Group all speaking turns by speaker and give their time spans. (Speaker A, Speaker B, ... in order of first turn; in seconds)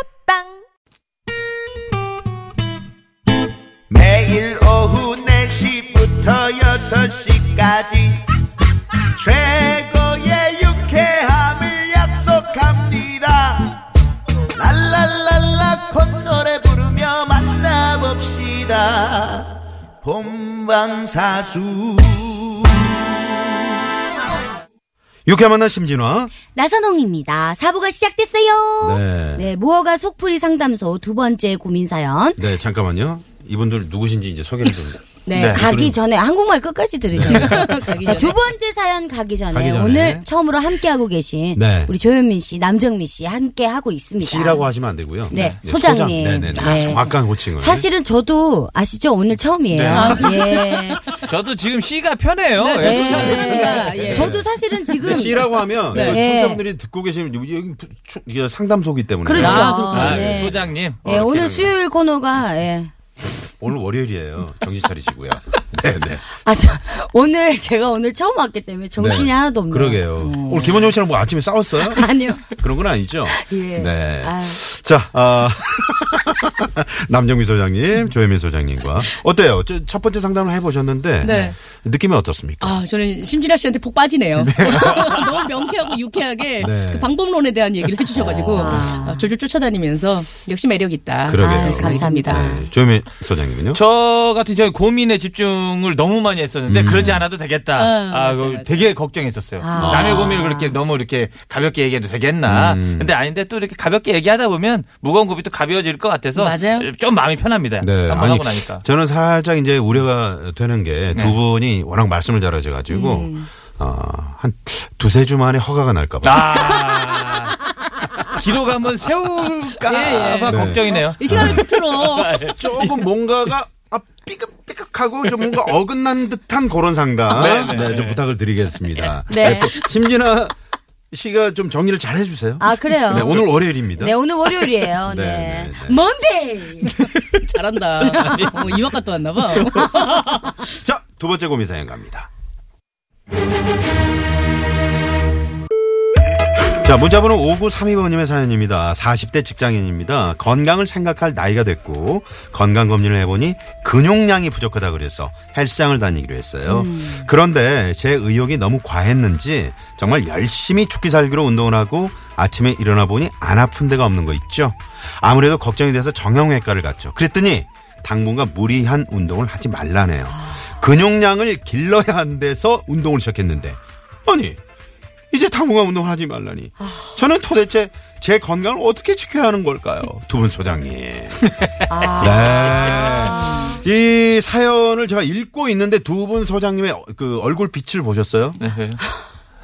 Speaker A: 3.9-8.2, 9.1-13.8, 14.5-22.9
Speaker B: 25.2-26.3, 28.8-29.5, 32.4-36.0, 37.1-37.8, 39.5-40.2, 41.5-41.9, 44.2-47.9, 49.7-50.4, 54.1-61.7, 63.6-66.3, 69.0-82.8, 86.6-87.1, 88.1-88.9, 91.3-93.8, 96.7-97.2, 99.7-100.4, 102.5-103.1, 107.8-116.8, 120.5-121.7, 122.3-130.5, 131.1-134.2, 135.0-136.0, 140.7-142.3, 146.8-174.6, 175.3-181.5, 182.2-188.6
Speaker C: 26.5-32.5, 35.2-44.6, 45.3-51.1, 52.8-56.6, 59.2-62.9, 66.4-70.0, 71.8-72.5, 73.2-74.6, 88.5-89.2, 91.3-92.7, 99.6-100.8, 129.3-129.7, 132.6-136.9, 138.1-138.4, 170.3-170.7, 176.8-177.2, 181.9-183.8
Speaker D: 35.3-35.6, 45.3-45.6, 51.2-54.2, 59.8-61.5, 84.4-85.5, 93.7-108.8, 111.1-111.4, 116.2-117.6, 118.2-123.1, 125.2-125.7, 127.3-128.2, 138.0-138.9, 182.5-183.3, 188.6-189.0
Speaker E: 37.3-38.3, 46.5-47.1, 49.9-51.2, 52.5-54.4, 55.0-56.2, 59.3-60.3, 70.2-70.8, 81.2-81.6, 82.6-92.6, 97.7-98.9, 106.3-106.9, 112.9-113.5, 119.8-122.4, 136.8-140.6, 156.7-157.3